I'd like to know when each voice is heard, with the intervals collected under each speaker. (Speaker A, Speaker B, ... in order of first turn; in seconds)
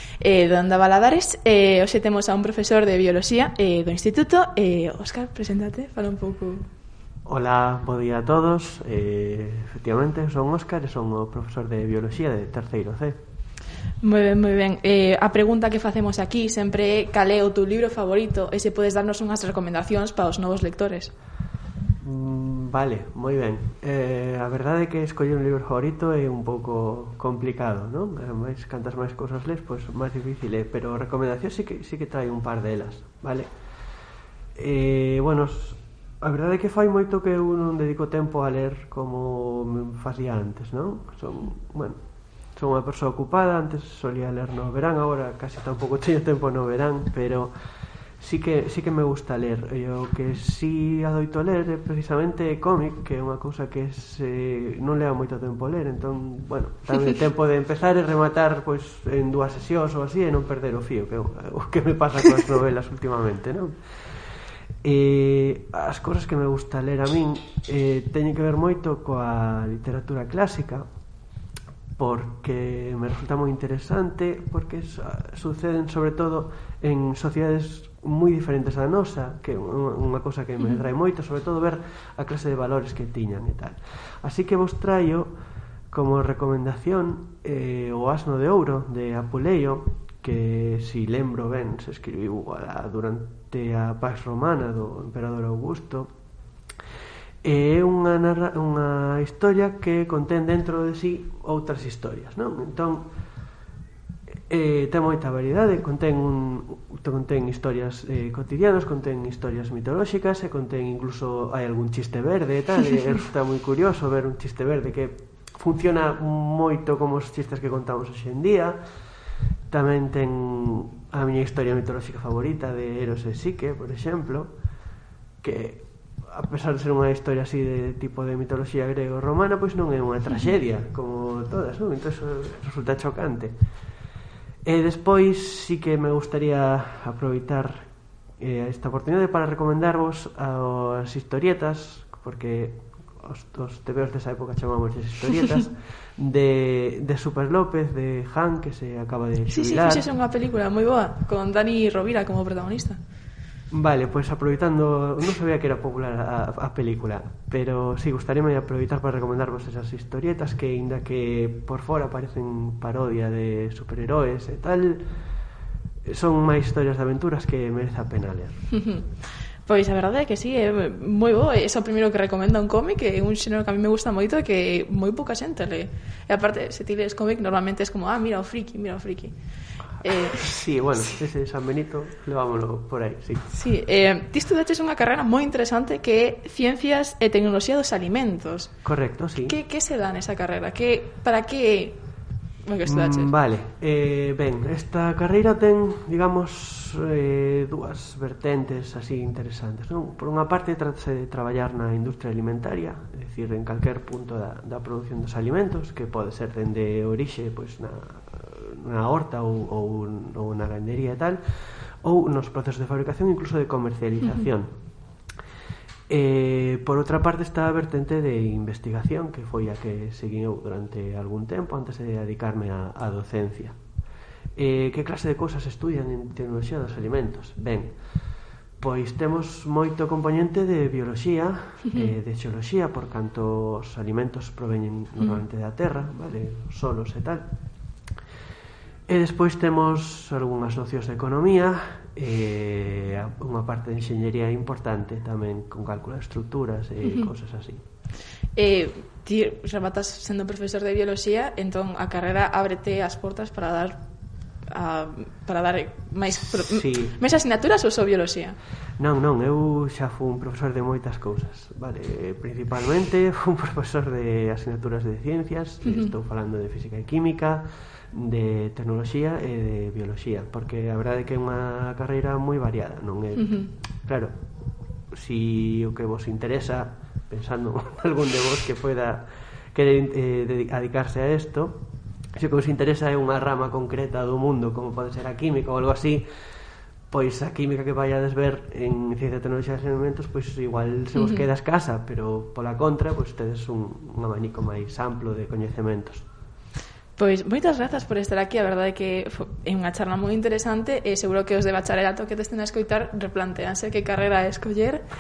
Speaker A: 0.2-6.7, 14.0-21.1, 149.5-153.0, 168.7-169.0, 169.7-179.3, 180.0-180.5, 183.5-188.7, 189.4-192.0, 192.7-193.3, 247.0-247.3, 248.6-254.0, 254.7-258.6, 273.4-273.7, 291.1-291.4, 297.2-305.1
Speaker B: 7.2-13.2, 22.0-33.5, 34.5-42.0, 42.5-47.5, 48.2-63.8, 64.8-70.8, 72.0-85.3, 85.9-96.1, 97.4-103.1, 104.5-118.8, 119.7-124.5, 125.4-133.5, 134.7-150.1, 153.7-165.0, 166.0-168.6, 180.2-183.5, 188.8-189.6, 192.8-211.4, 212.0-214.7, 216.1-223.8, 224.6-227.9, 228.8-237.5, 239.1-247.8, 256.5-257.2, 259.0-274.3, 275.1-281.8, 282.3-286.3, 287.1-296.3